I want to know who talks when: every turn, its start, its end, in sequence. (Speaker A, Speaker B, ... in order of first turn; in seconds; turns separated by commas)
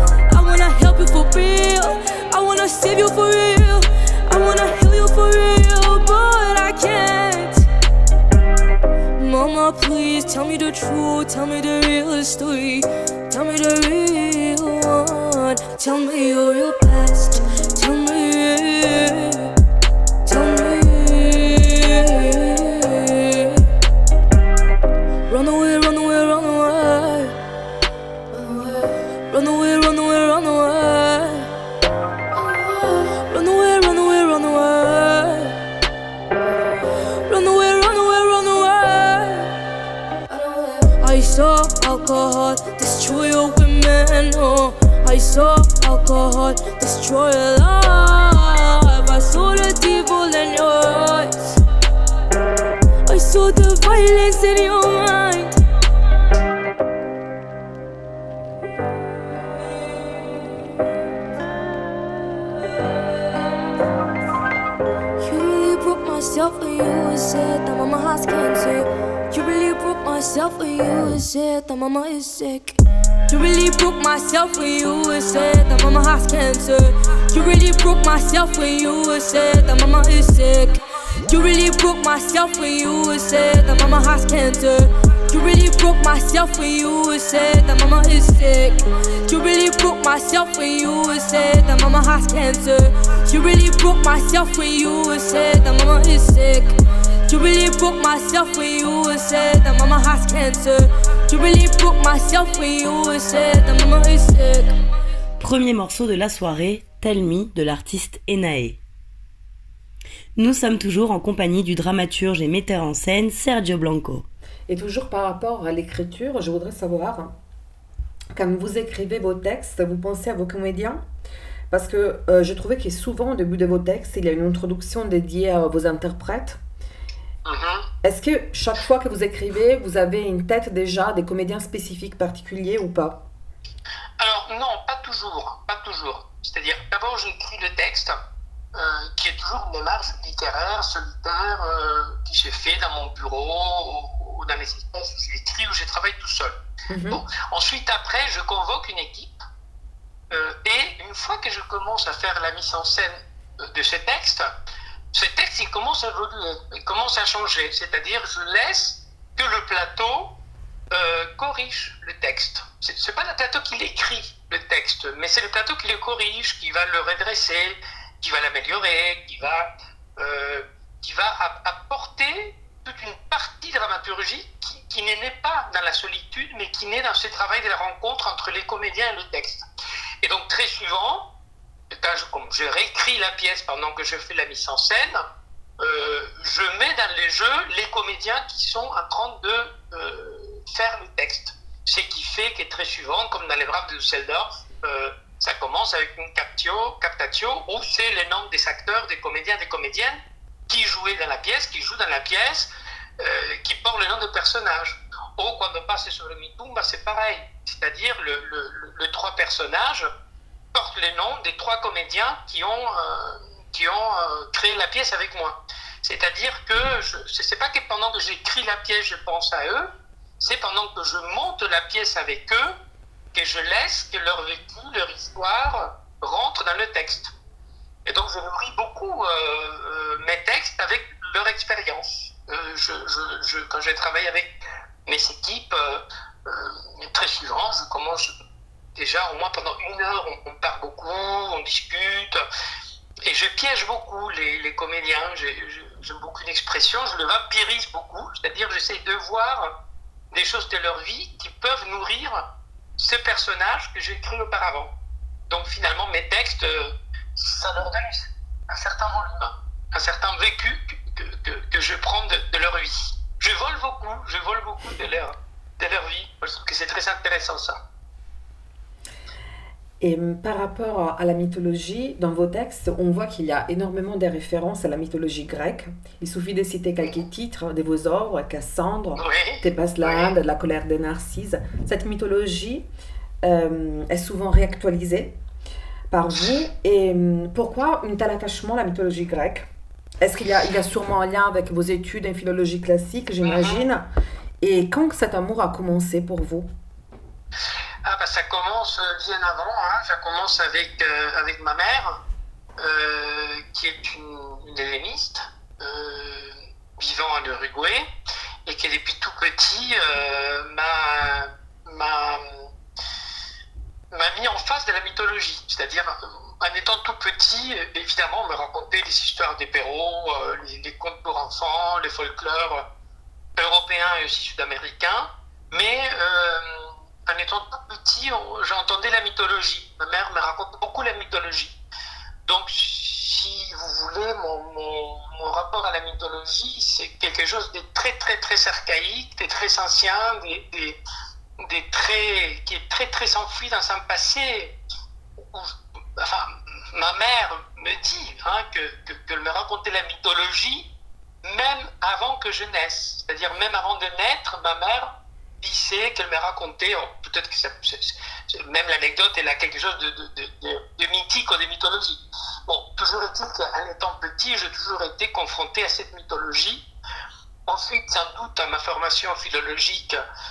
Speaker A: 0.3-7.7, Speaker A: 9.2-19.5, Speaker A: 20.2-23.6, Speaker A: 25.3-27.4, Speaker A: 28.3-31.5, Speaker A: 32.3-35.6, Speaker A: 37.3-39.5, Speaker A: 40.3-51.6, Speaker A: 53.0-55.6, Speaker A: 65.2-96.7, Speaker A: 97.3-104.7, Speaker B: 105.4-108.8, Speaker B: 110.3-114.2, Speaker C: 114.7-117.3, Speaker C: 118.3-121.0, Speaker C: 121.7-126.6, Speaker D: 127.5-127.9, Speaker C: 128.0-133.2, Speaker D: 134.2-138.2, Speaker D: 138.7-146.6, Speaker C: 146.9-147.2, Speaker D: 147.1-149.3, Speaker D: 150.3-154.5, Speaker D: 155.1-160.3, Speaker D: 160.9-179.7, Speaker D: 180.2-181.3, Speaker D: 182.0-185.2, Speaker D: 185.8-200.2, Speaker D: 200.7-202.7, Speaker D: 203.2-210.1, Speaker D: 210.7-222.8, Speaker D: 223.3-227.3, Speaker D: 228.1-234.5, Speaker D: 235.1-238.3, Speaker D: 238.9-242.4, Speaker D: 243.2-249.7, Speaker D: 250.3-252.4, Speaker D: 253.0-254.9, Speaker D: 255.5-267.8, Speaker C: 270.0-282.9, Speaker D: 279.2-280.3, Speaker C: 283.4-285.4, Speaker C: 286.1-289.7, Speaker C: 290.2-294.1, Speaker D: 293.4-293.8, Speaker C: 294.6-296.7, Speaker D: 298.0-302.2, Speaker D: 302.8-308.1, Speaker D: 308.6-312.7, Speaker D: 314.1-322.8, Speaker D: 323.6-331.8, Speaker D: 332.4-341.0, Speaker D: 341.6-344.7, Speaker D: 345.4-350.9, Speaker D: 351.4-366.8, Speaker D: 367.7-370.2